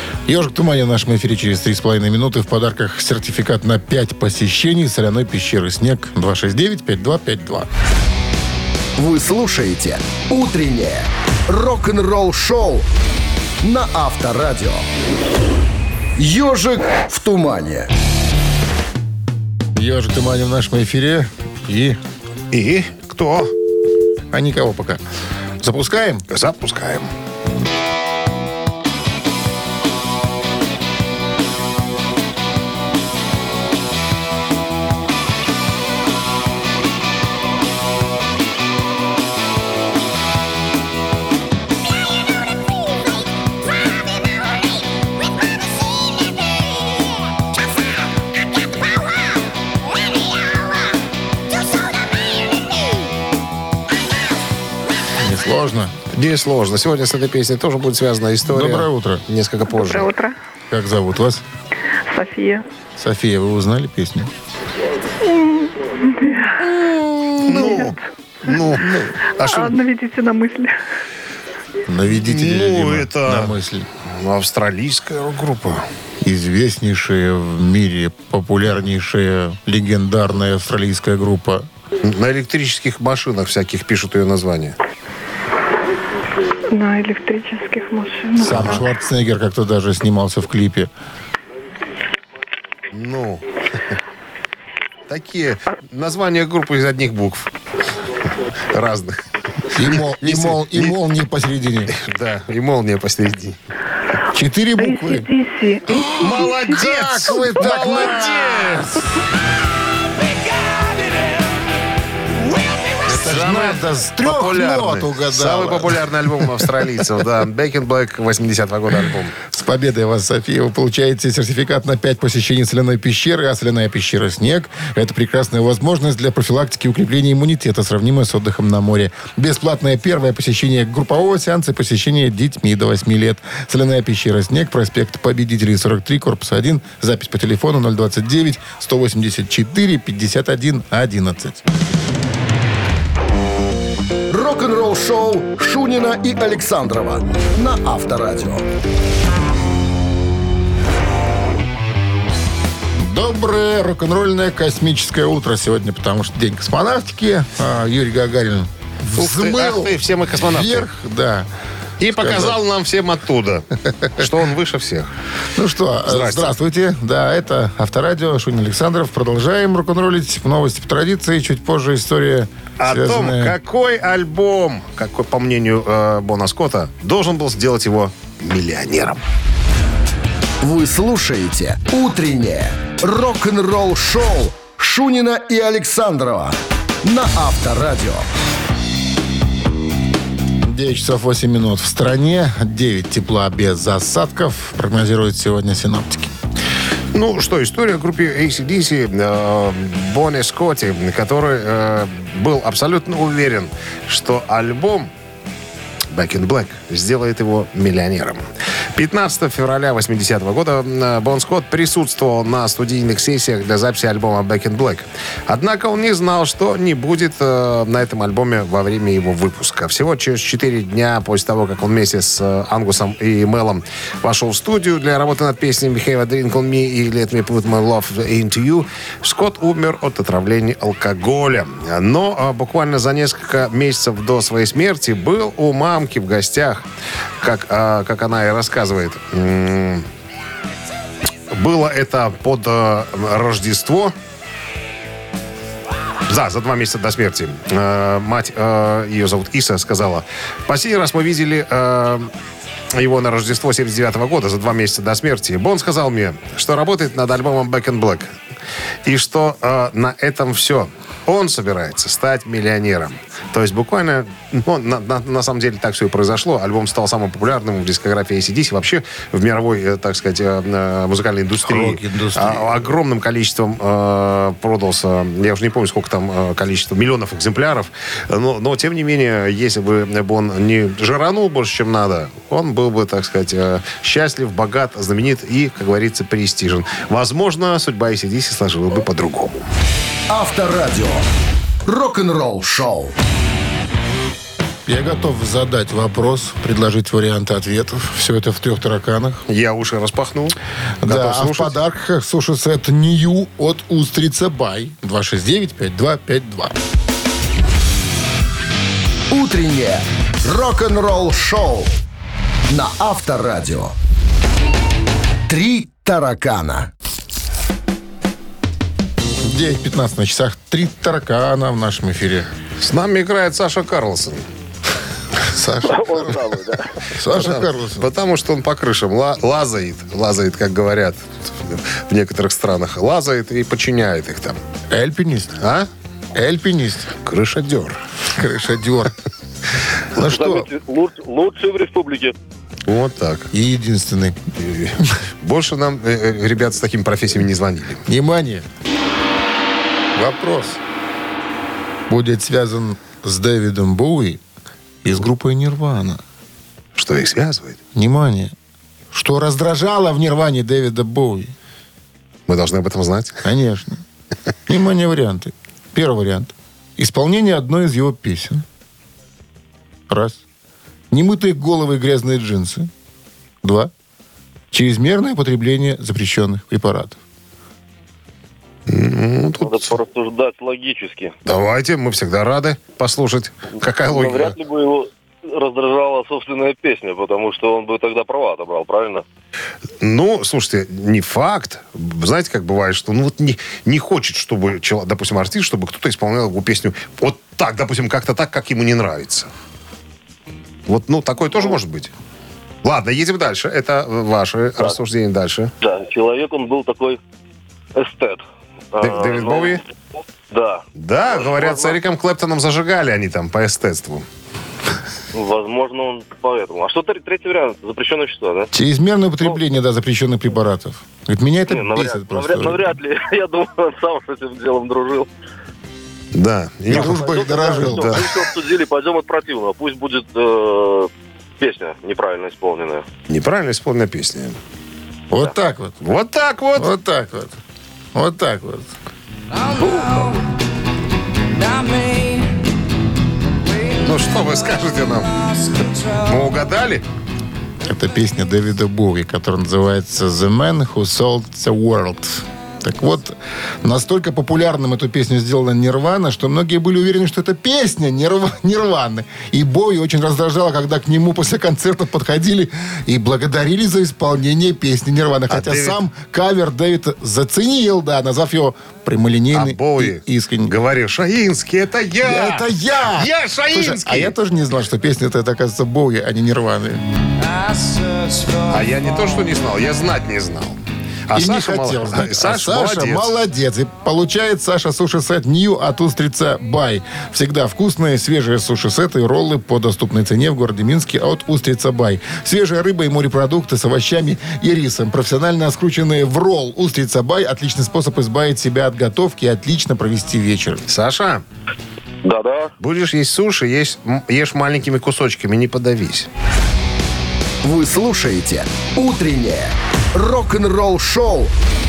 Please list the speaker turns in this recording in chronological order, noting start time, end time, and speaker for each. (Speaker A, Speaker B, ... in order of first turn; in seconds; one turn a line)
Speaker A: 0.3-7.7
Speaker B: 9.0-12.9
Speaker B: 13.6-14.9
Speaker B: 16.2-17.9
Speaker A: 19.8-22.0
Speaker C: 22.5-23.5
Speaker A: 24.3-25.0
Speaker A: 25.6-26.2
Speaker C: 26.3-27.1
Speaker A: 55.2-56.0
Speaker C: 56.1-60.1
Speaker A: 58.5-59.2
Speaker D: 59.7-60.4
Speaker A: 60.7-61.4
Speaker D: 62.1-62.6
Speaker A: 63.0-64.3
Speaker D: 65.3-66.8
Speaker C: 66.8-69.8
Speaker D: 67.4-68.6
Speaker A: 68.7-69.2
Speaker D: 69.4-70.8
Speaker A: 71.9-73.9
Speaker C: 72.1-73.5
Speaker C: 74.0-75.9
Speaker A: 76.2-81.7
Speaker C: 82.0-84.8
Speaker D: 86.7-88.7
Speaker A: 88.4-90.9
Speaker C: 88.5-88.8
Speaker C: 92.9-93.5
Speaker C: 95.1-97.5
Speaker C: 98.7-99.2
Speaker A: 99.7-101.9
Speaker C: 99.8-101.0
Speaker C: 101.9-103.6
Speaker A: 104.3-105.3
Speaker D: 104.8-107.6
Speaker C: 106.0-109.0
Speaker A: 106.2-109.0
Speaker C: 112.9-119.4
Speaker A: 113.0-116.6
Speaker A: 119.5-141.6
Speaker B: 144.3-148.7
Speaker A: 153.0-160.0
Speaker C: 159.2-160.9
Speaker A: 160.5-161.5
Speaker C: 162.0-165.1
Speaker A: 162.2-162.6
Speaker A: 165.6-173.6
Speaker C: 166.1-166.5
Speaker C: 172.8-179.2
Speaker B: 180.6-188.3
Speaker A: 190.6-196.3
Speaker C: 197.1-205.1
Speaker C: 206.1-208.4
Speaker C: 208.9-236.8
Speaker C: 237.4-240.1
Speaker C: 241.5-244.1
Speaker C: 246.3-252.3
Speaker C: 252.9-258.3
Speaker C: 259.1-289.7
Speaker A: 271.6-272.8
Speaker B: 290.3-291.2
Speaker B: 291.9-293.1
Speaker A: 294.9-299.4
Speaker C: 299.5-301.7
Speaker A: 301.0-306.8
Speaker B: 309.3-312.0
Speaker B: 312.7-313.9
Speaker B: 315.5-316.9
Speaker A: 319.4-322.5
Speaker C: 322.8-324.4
Speaker A: 325.5-326.3
Speaker E: 325.8-327.0
Speaker A: 327.1-328.1
Speaker C: 327.3-334.6
Speaker A: 334.9-335.6
Speaker C: 335.6-335.9
Speaker A: 336.4-337.1
Speaker C: 337.2-338.0
Speaker A: 338.3-339.2
Speaker A: 340.2-340.7
Speaker E: 340.2-342.4
Speaker C: 342.9-343.5
Speaker A: 343.5-344.4
Speaker C: 344.6-348.0
Speaker A: 348.1-348.7
Speaker A: 350.1-350.8
Speaker A: 352.1-354.4
Speaker A: 355.0-356.2
Speaker C: 357.0-357.8
Speaker A: 357.9-358.5
Speaker A: 359.1-361.5
Speaker C: 362.5-363.4
Speaker A: 363.4-364.0
Speaker A: 364.7-368.6
Speaker A: 370.1-370.4
Speaker A: 371.1-372.9
Speaker A: 373.6-373.9
Speaker A: 374.7-377.2
Speaker C: 378.9-380.0
Speaker E: 379.6-381.4
Speaker C: 381.4-384.6
Speaker E: 384.0-389.2
Speaker C: 390.0-399.5
Speaker C: 400.9-402.1
Speaker C: 402.8-405.7
Speaker E: 405.8-407.2
Speaker E: 407.9-409.8
Speaker C: 409.0-409.8
Speaker E: 410.5-412.0
Speaker C: 411.0-414.3
Speaker E: 415.3-418.7
Speaker A: 418.7-422.9
Speaker E: 421.7-425.3
Speaker C: 426.3-428.3
Speaker A: 426.9-428.2
Speaker E: 426.9-433.1
Speaker C: 433.3-434.6
Speaker A: 435.3-435.9
Speaker C: 436.0-436.9
Speaker A: 436.8-437.6
Speaker A: 438.1-438.9
Speaker C: 439.8-440.1
Speaker C: 444.0-447.0
Speaker A: 447.9-470.7
Speaker C: 465.5-466.0
Speaker C: 469.5-474.3
Speaker A: 472.2-477.0
Speaker C: 478.5-483.4
Speaker A: 481.3-500.8
Speaker C: 500.9-501.4
Speaker E: 502.2-502.7
Speaker C: 502.8-506.3
Speaker B: 507.6-511.5